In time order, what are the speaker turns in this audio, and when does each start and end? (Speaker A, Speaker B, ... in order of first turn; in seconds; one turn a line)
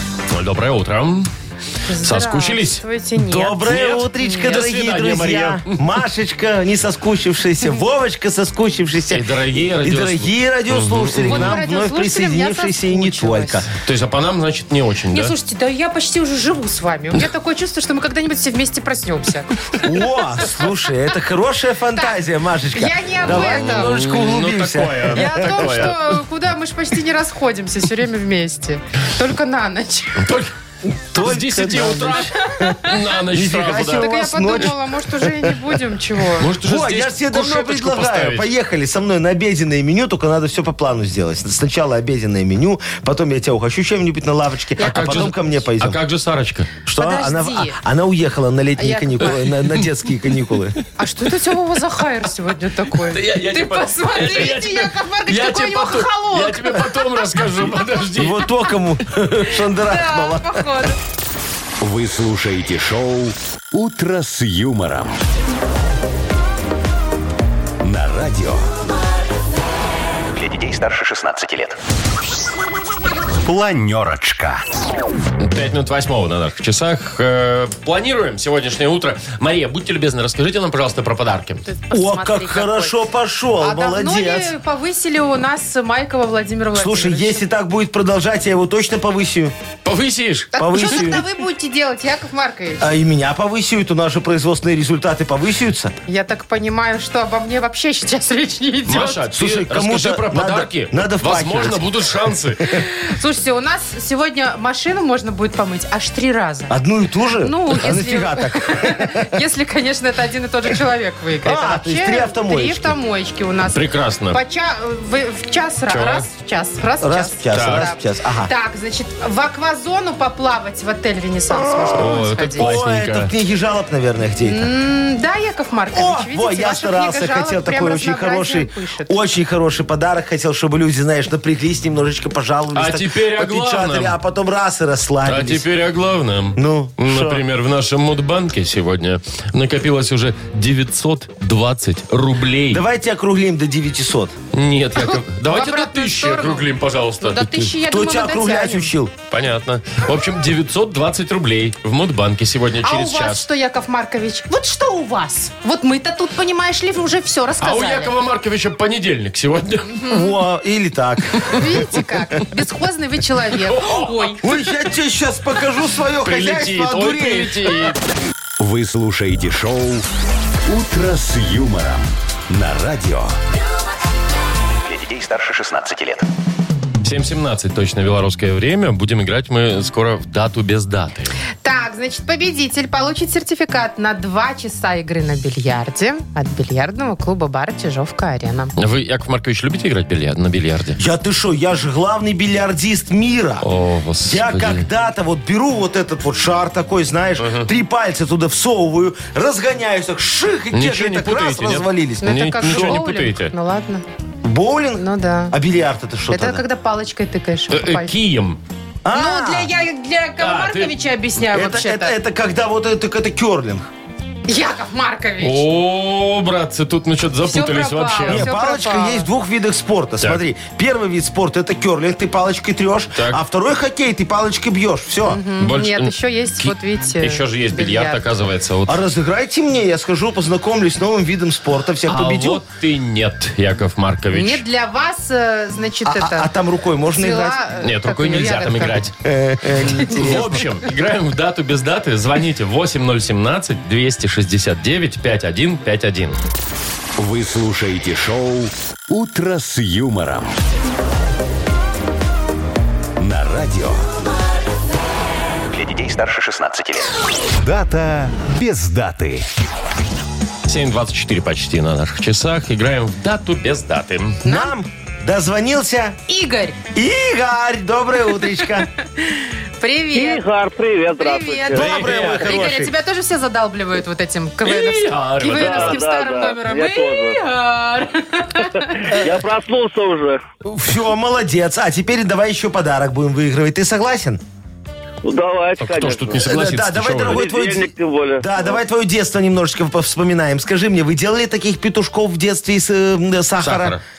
Speaker A: 0.3-1.3
Speaker B: 1.9-3.7
Speaker A: 2.0-2.8
Speaker C: 3.2-13.7
Speaker A: 3.6-5.8
Speaker A: 9.1-11.6
Speaker B: 11.3-13.6
Speaker A: 13.8-15.3
Speaker B: 15.1-19.9
Speaker C: 19.8-25.9
Speaker B: 22.7-23.9
Speaker A: 23.3-26.0
Speaker B: 25.1-30.2
Speaker A: 30.2-30.5
Speaker C: 30.9-35.8
Speaker A: 31.1-34.6
Speaker B: 32.5-33.0
Speaker B: 33.9-36.5
Speaker A: 36.4-38.5
Speaker C: 36.6-46.0
Speaker A: 44.8-46.7
Speaker B: 44.8-45.2
Speaker C: 46.9-50.8
Speaker B: 46.9-47.8
Speaker B: 48.8-49.4
Speaker B: 51.0-56.8
Speaker A: 53.1-58.5
Speaker C: 58.2-60.7
Speaker B: 59.5-61.0
Speaker D: 61.8-65.2
Speaker D: 67.8-68.7
Speaker D: 70.3-71.8
Speaker D: 73.4-74.6
Speaker A: 75.4-81.6
Speaker B: 81.7-83.0
Speaker C: 81.9-84.5
Speaker B: 83.6-87.4
Speaker C: 86.8-89.5
Speaker A: 89.8-91.0
Speaker B: 90.5-92.9
Speaker C: 90.6-91.2
Speaker C: 92.8-96.0
Speaker B: 96.1-99.2
Speaker A: 98.9-102.8
Speaker C: 99.3-101.8
Speaker B: 102.7-106.8
Speaker C: 106.7-109.4
Speaker B: 107.4-122.7
Speaker C: 111.4-113.0
Speaker A: 113.7-114.4
Speaker A: 115.9-116.3
Speaker C: 117.0-118.5
Speaker A: 117.5-117.9
Speaker C: 121.5-124.7
Speaker A: 122.0-123.3
Speaker B: 124.4-129.2
Speaker C: 125.9-135.6
Speaker A: 132.7-134.2
Speaker A: 135.2-142.8
Speaker C: 136.6-137.4
Speaker C: 142.7-144.3
Speaker A: 144.5-147.7
Speaker B: 145.0-146.7
Speaker B: 147.2-148.9
Speaker C: 147.7-149.1
Speaker A: 149.3-153.5
Speaker B: 152.8-158.1
Speaker A: 157.6-159.9
Speaker B: 159.9-160.3
Speaker C: 160.1-161.7
Speaker B: 161.5-164.4
Speaker A: 163.7-164.3
Speaker C: 164.4-167.9
Speaker A: 166.2-168.0
Speaker D: 168.6-170.1
Speaker D: 170.7-173.4
Speaker D: 174.8-176.3
Speaker A: 177.0-181.3
Speaker B: 181.6-188.7
Speaker A: 188.8-191.0
Speaker C: 191.0-193.7
Speaker A: 193.6-194.8
Speaker C: 194.2-203.0
Speaker A: 197.4-197.7
Speaker A: 200.7-203.5
Speaker B: 202.2-204.0
Speaker C: 204.4-206.6
Speaker B: 205.0-205.6
Speaker B: 206.3-208.1
Speaker A: 207.7-208.6
Speaker C: 209.0-209.7
Speaker B: 209.1-212.2
Speaker A: 210.4-211.0
Speaker C: 211.5-213.9
Speaker B: 214.5-215.6
Speaker A: 215.4-218.5
Speaker B: 217.5-219.3
Speaker C: 218.3-225.4
Speaker A: 223.2-223.4
Speaker B: 225.3-228.2
Speaker A: 225.6-229.0
Speaker C: 228.9-232.6
Speaker A: 232.1-234.6
Speaker B: 234.3-236.5
Speaker C: 236.1-237.6
Speaker B: 237.1-239.1
Speaker A: 237.8-239.1
Speaker C: 239.2-240.6
Speaker A: 240.0-246.4
Speaker D: 247.2-250.5
Speaker D: 253.2-254.1
Speaker D: 255.7-259.5
Speaker A: 260.7-264.4
Speaker B: 264.4-264.7
Speaker C: 264.4-266.2
Speaker B: 266.3-266.8
Speaker C: 266.9-268.9
Speaker B: 268.6-270.4
Speaker E: 270.1-272.0
Speaker B: 271.2-279.1
Speaker C: 271.7-272.9
Speaker A: 271.9-272.7
Speaker A: 274.6-276.0
Speaker E: 275.4-277.4
Speaker E: 278.6-280.4
Speaker C: 280.6-284.4
Speaker E: 285.2-286.6
Speaker A: 285.8-287.4
Speaker C: 286.4-294.0
Speaker E: 287.2-288.8
Speaker A: 293.6-294.0